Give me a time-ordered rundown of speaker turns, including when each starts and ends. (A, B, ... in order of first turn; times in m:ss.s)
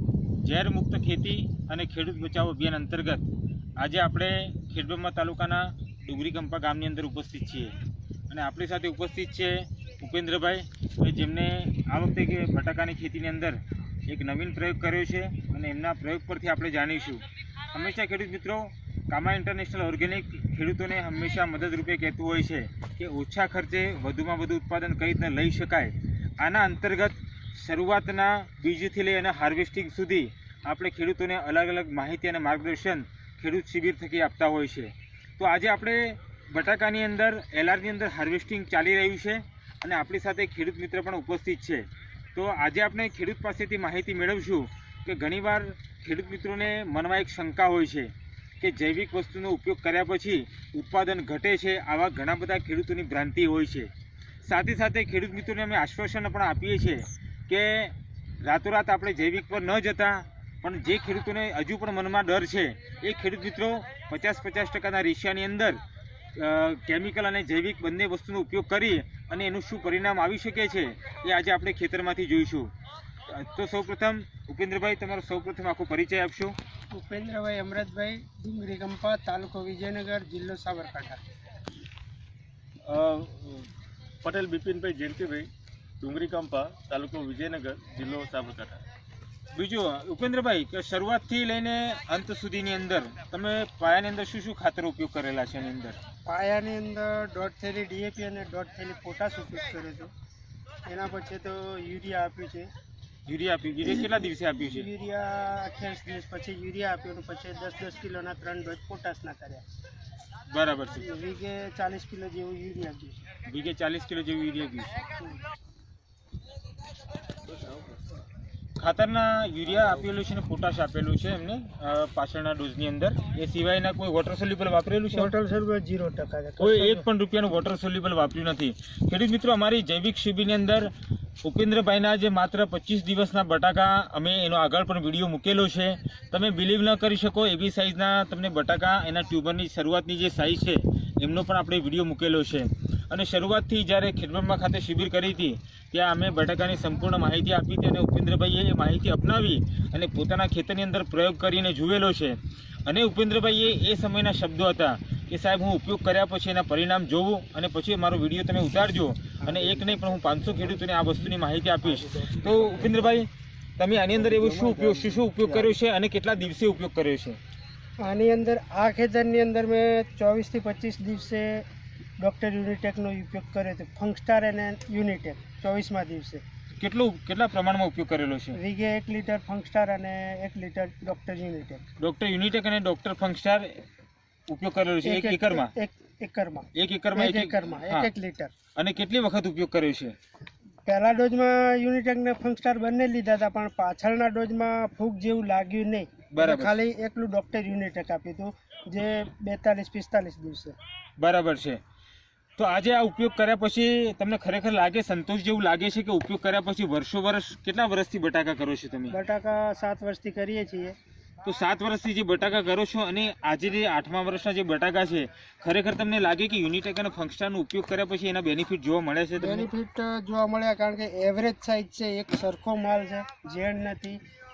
0:00.4-0:07.8 A
0:08.3-0:53.9 A
0:54.4-1:05.8 A
1:06.3-1:12.7 A
1:13.3-1:16.5 A
1:16.9-1:21.2 B
1:22.8-1:23.6 C
1:24.2-1:25.5 C
1:26.0-1:28.8 C
1:29.5-1:36.0 A
1:36.2-1:40.1 B
1:40.8-1:42.7 B
1:43.2-1:44.9 A
1:43.8-1:49.6 B
1:50.5-1:51.1 A
1:51.0-1:53.2 B
1:53.4-1:55.0 A
1:58.8-2:05.3 A
2:05.1-2:07.0 B
2:06.6-2:47.4 A
2:48.0-2:51.6 B
2:52.2-2:56.4 B
2:56.8-2:58.6 A
2:58.5-3:01.9 B
3:02.0-3:03.8 A
3:04.5-3:05.7 A
3:05.0-3:08.5 B
3:06.7-3:08.1 A
3:08.8-3:10.1 A
3:10.8-3:20.7 B
3:16.3-3:16.8 A
3:21.2-3:21.8 A
3:22.6-3:29.1 A
3:29.1-3:30.9 B
3:31.4-3:39.7 A
3:39.4-3:44.2 B